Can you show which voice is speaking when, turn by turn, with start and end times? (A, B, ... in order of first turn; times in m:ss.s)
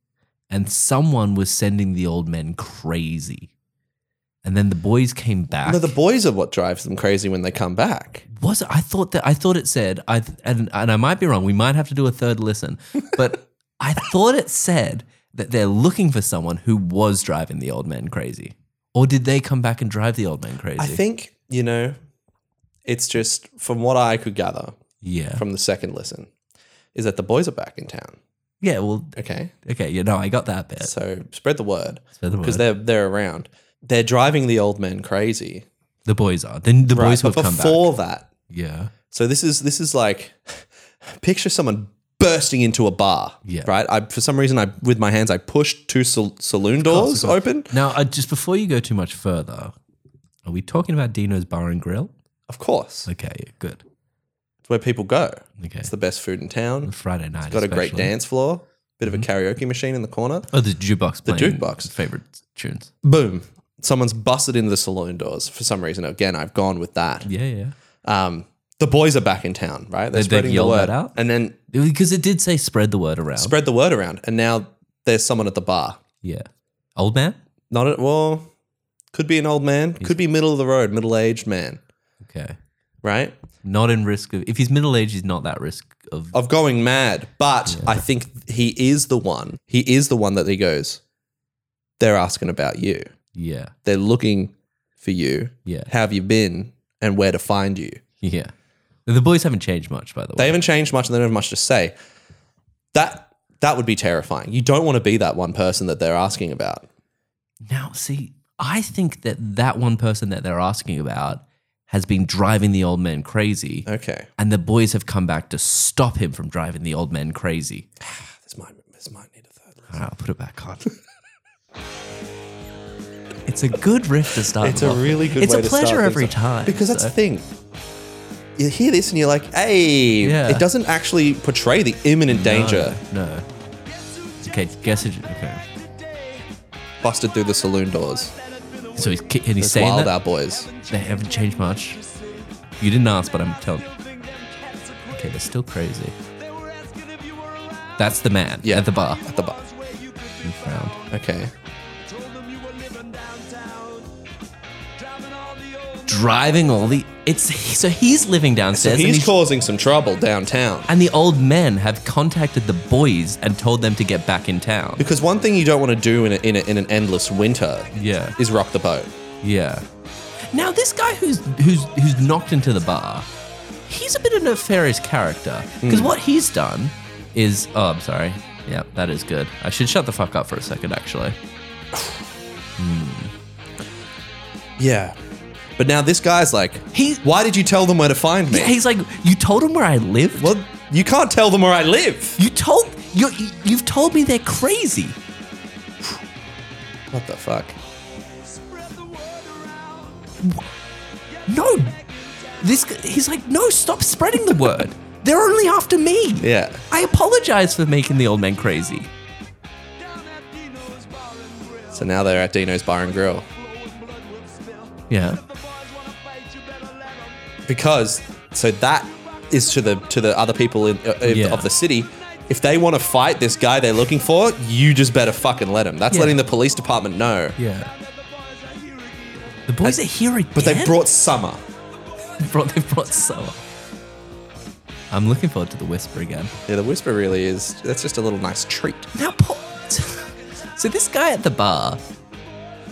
0:00.5-0:03.5 A
0:04.4-0:05.9 A
0:05.6-0:08.2 B
0:08.3-0:21.0 A
0:20.8-0:22.0 B
0:22.8-0:24.8 B
0:25.0-0:25.4 A
0:25.4-0:26.3 B
0:26.9-0:28.2 B
0:28.6-0:30.9 A
0:29.2-0:29.5 B
0:30.8-0:35.6 B
0:32.2-0:32.6 A
0:36.0-0:37.9 A
0:36.9-0:38.3 B
0:38.5-0:38.9 A
0:39.1-0:47.7 B
0:43.4-0:43.7 A
0:46.8-0:49.7 A
0:50.4-0:52.1 A
0:52.5-0:53.1 B
0:53.0-0:53.8 A
0:54.7-0:56.9 B
0:55.6-0:55.9 A
0:56.8-0:58.1 A
0:57.5-1:00.5 B
1:00.5-1:02.9 A
1:01.2-1:01.9 B
1:03.0-1:07.3 B
1:07.2-1:07.7 A
1:08.0-1:11.6 B
1:10.1-1:11.2 A
1:11.7-1:13.5 A
1:13.4-1:16.0 B
1:16.2-1:17.4 A
1:17.7-1:18.5 B
1:19.1-1:21.8 B
1:22.2-1:22.6 A
1:23.0-1:23.4 B
1:23.6-1:26.4 A
1:26.3-1:31.0 B
1:27.7-1:28.0 A
1:32.0-1:33.1 B
1:33.3-1:33.7 A
1:33.8-1:38.0 B
1:38.2-1:38.5 A
1:39.0-1:40.6 A
1:40.4-1:41.9 B
1:42.9-1:46.8 B
1:47.6-1:57.8 A
1:53.8-1:54.3 B
1:58.0-2:00.0 B
1:59.9-2:00.9 A
2:03.4-2:07.1 A
2:04.6-2:07.5 B
2:08.6-2:13.0 B
2:10.2-2:10.7 A
2:12.3-2:13.4 A
2:13.9-2:14.4 C
2:14.4-2:15.6 A
2:15.7-2:16.4 C
2:17.0-2:18.3 B
2:18.4-2:19.2 C
2:19.0-2:20.2 A
2:19.6-2:20.7 B
2:20.5-2:22.6 C
2:20.9-2:22.0 A
2:22.8-2:23.8 A
2:23.6-2:25.4 C
2:25.1-2:26.1 A
2:26.3-2:28.0 C
2:28.0-2:29.2 A
2:28.6-2:29.6 B
2:29.4-2:30.9 C
2:30.4-2:31.0 A
2:31.1-2:31.5 B
2:32.0-2:34.1 C
2:35.0-2:36.9 C
2:36.1-2:39.3 A
2:38.7-2:40.9 B
2:40.9-2:45.0 A
2:45.0-2:49.1 B
2:47.9-2:48.4 A
2:49.4-2:49.8 A
2:50.5-2:53.3 A
2:53.9-3:01.4 A
2:55.8-2:56.1 B
3:02.8-3:03.3 A
3:04.8-3:05.2 B
3:05.8-3:08.7 B
3:06.9-3:07.2 A
3:08.5-3:10.5 A
3:10.4-3:12.4 B
3:12.4-3:15.2 A
3:17.1-3:17.8 B
3:18.4-3:20.4 C
3:21.3-3:22.8 C
3:21.5-3:21.9 A
3:22.6-3:29.1 A
3:26.4-3:26.8 B
3:30.0-3:32.1 C
3:31.9-3:33.5 B
3:33.2-3:37.4 C
3:35.1-3:35.4 A
3:37.6-3:47.6 B
3:41.2-3:41.7 A
3:46.1-3:46.4 A
3:47.6-3:47.9 A
3:47.8-3:49.6 C
3:49.7-3:51.0 A
3:50.5-3:51.6 B
3:52.4-3:53.6 A
3:55.1-3:56.5 A
3:56.7-3:59.1 B
3:59.1-4:02.0 A